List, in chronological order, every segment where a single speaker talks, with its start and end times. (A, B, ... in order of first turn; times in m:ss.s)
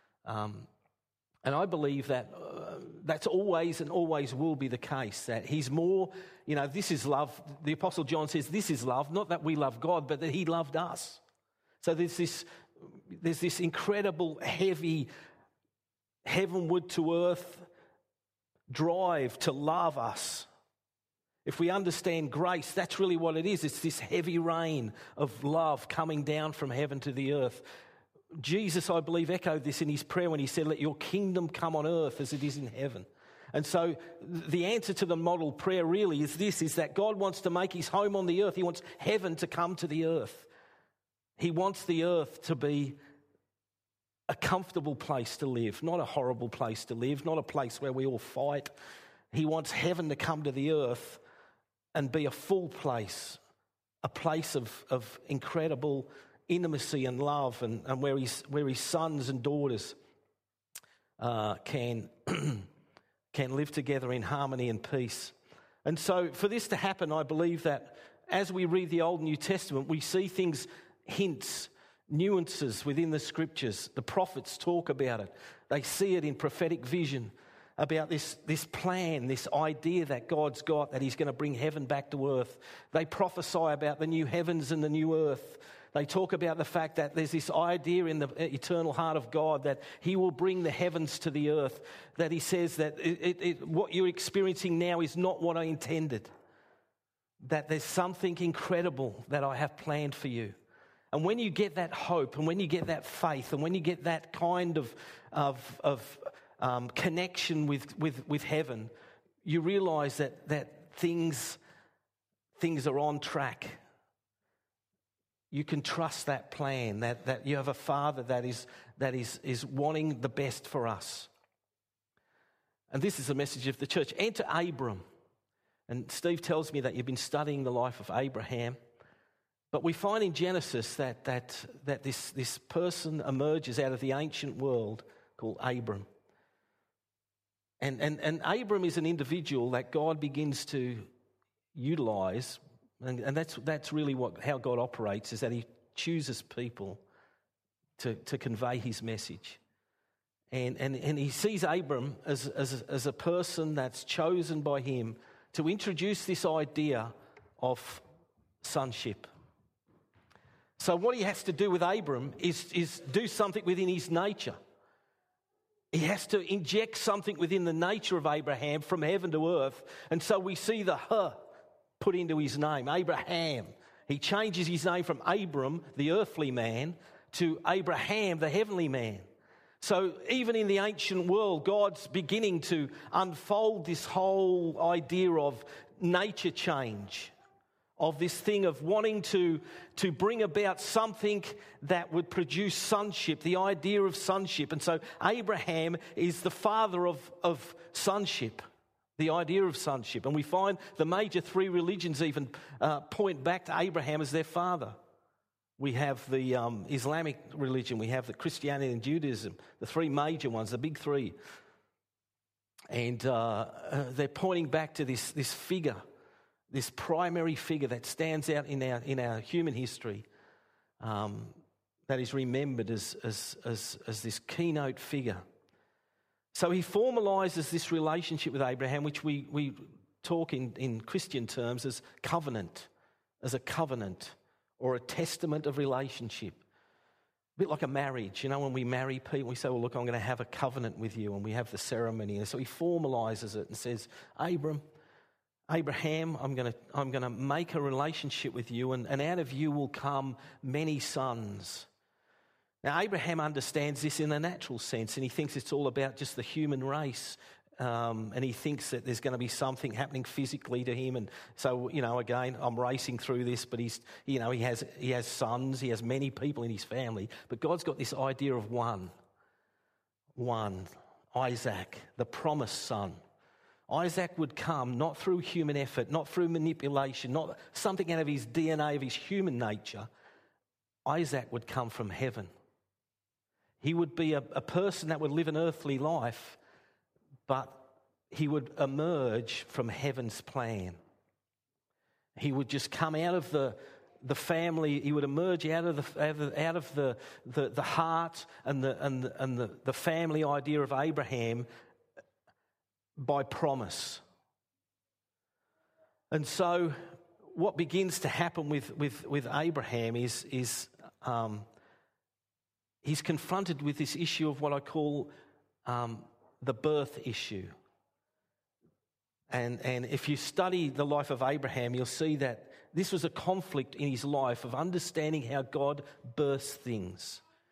0:00.2-0:00.7 A
0:01.4-0:11.2 A
0:11.8-0:12.5 A
0:13.1-0:15.1 A
0:16.2-0:17.7 A
0:18.7-0:20.5 A
0:21.4-0:27.6 A
0:28.3-0:40.5 A
0:41.4-0:43.0 A
0:44.3-0:48.7 A
0:49.3-0:51.2 A
0:51.9-0:53.4 A
0:54.0-1:00.0 A
1:01.2-1:02.7 A
1:03.3-1:05.3 A
1:05.8-1:36.3 A
1:37.4-1:40.6 A
1:41.1-1:48.9 A
1:49.4-1:51.6 A
1:52.6-1:53.8 A
1:55.5-2:01.3 A
2:02.9-2:05.0 A
2:05.9-2:08.8 A
2:09.7-2:16.1 A
2:17.8-2:21.1 A
2:21.7-2:27.0 A
2:28.0-2:29.6 A
2:30.5-2:38.0 A
2:38.6-2:39.3 A
2:40.8-2:44.6 A
2:45.9-2:51.4 A
2:52.0-2:59.2 A
2:59.8-3:07.3 A
3:08.0-3:18.6 A
3:19.2-3:25.0 A
3:25.8-3:31.4 A
3:32.9-3:36.0 A
3:36.7-3:40.2 A
3:41.0-3:41.6 A
3:42.1-3:45.4 A
3:46.5-3:52.9 A
3:53.4-3:56.6 A
3:57.6-4:04.8 A
4:05.7-4:11.9 A
4:12.8-4:29.1 A
4:30.4-4:33.2 A
4:33.9-4:40.1 A
4:41.0-4:42.5 A
4:43.8-4:46.6 A
4:47.5-4:51.0 A
4:52.4-5:01.7 A
5:03.2-5:04.2 A
5:06.3-5:11.6 A
5:13.0-5:15.3 A
5:15.8-5:17.7 A
5:19.5-5:27.4 A